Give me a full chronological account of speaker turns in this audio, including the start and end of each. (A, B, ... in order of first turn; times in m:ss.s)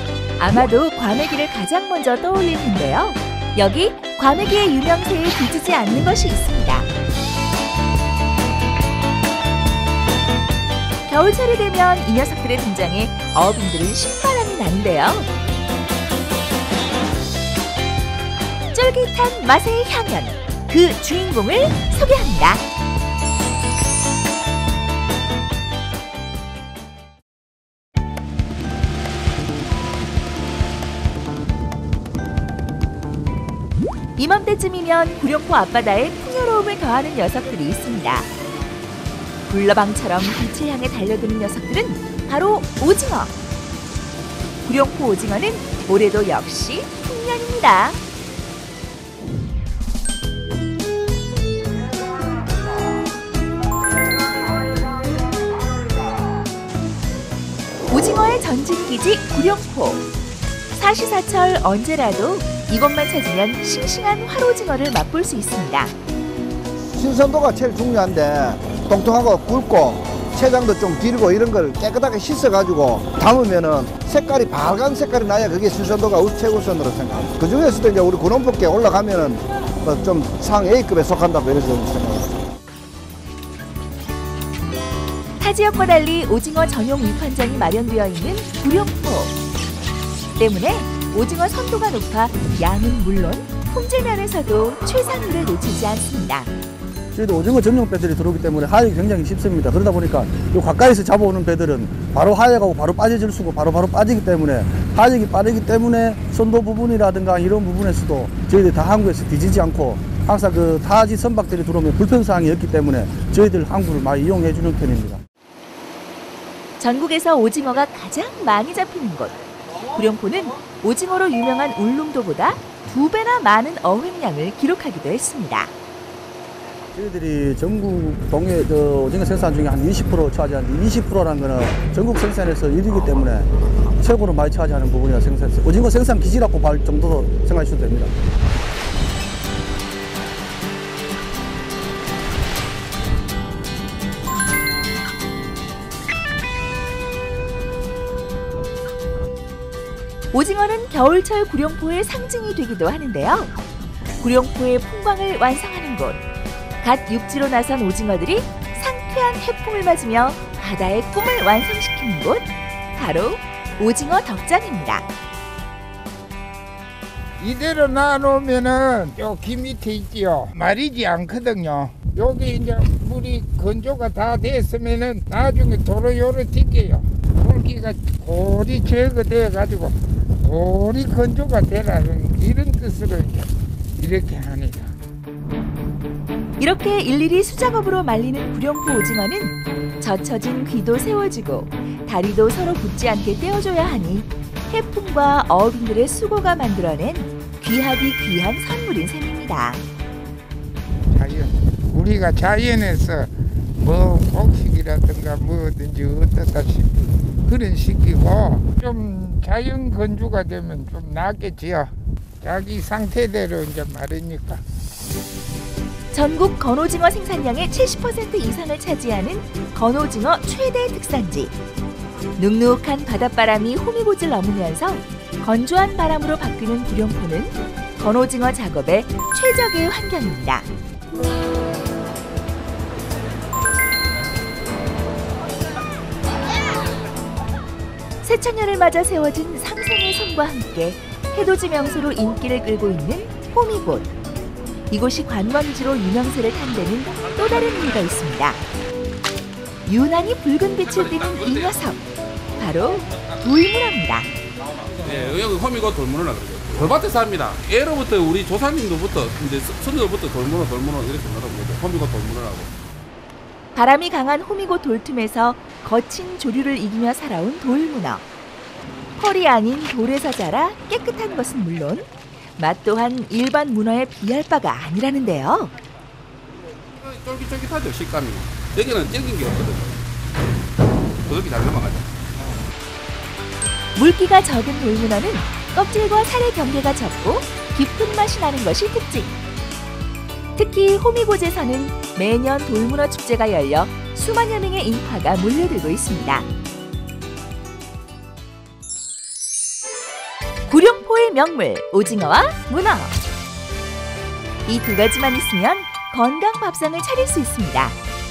0:00.4-0:06.9 A
0:11.1-0:15.3 A
0:18.7-0:22.6 A
0:34.2-0:38.3 A
0:39.5-0:43.3 A
0:44.6-0:48.0 A
0:57.9-1:00.0 A
1:00.7-1:05.9 A
1:07.0-1:22.3 B
1:25.4-1:29.4 A
1:30.4-1:36.5 A
1:37.1-1:55.2 C
1:56.8-2:05.7 A
2:06.9-2:18.1 C
2:30.3-2:33.5 A
2:34.2-2:36.2 A
2:36.8-2:45.1 A
2:47.4-3:04.9 D
3:06.6-3:19.8 A
3:21.1-3:31.9 D
3:32.4-3:34.6 D
3:36.1-3:41.5 A
3:42.4-3:50.7 A
3:58.2-4:04.1 A
4:04.9-4:08.6 A
4:09.8-4:12.0 A
4:10.8-4:11.7 E
4:12.6-4:14.3 A
4:14.9-4:22.7 E
4:23.7-4:28.2 A
4:29.2-4:32.1 A
4:32.6-4:35.7 A
4:37.0-4:40.0 E
4:41.2-4:42.1 E
4:44.0-4:49.3 A
4:50.6-4:56.5 A
5:00.7-5:03.1 A
5:04.6-5:08.0 A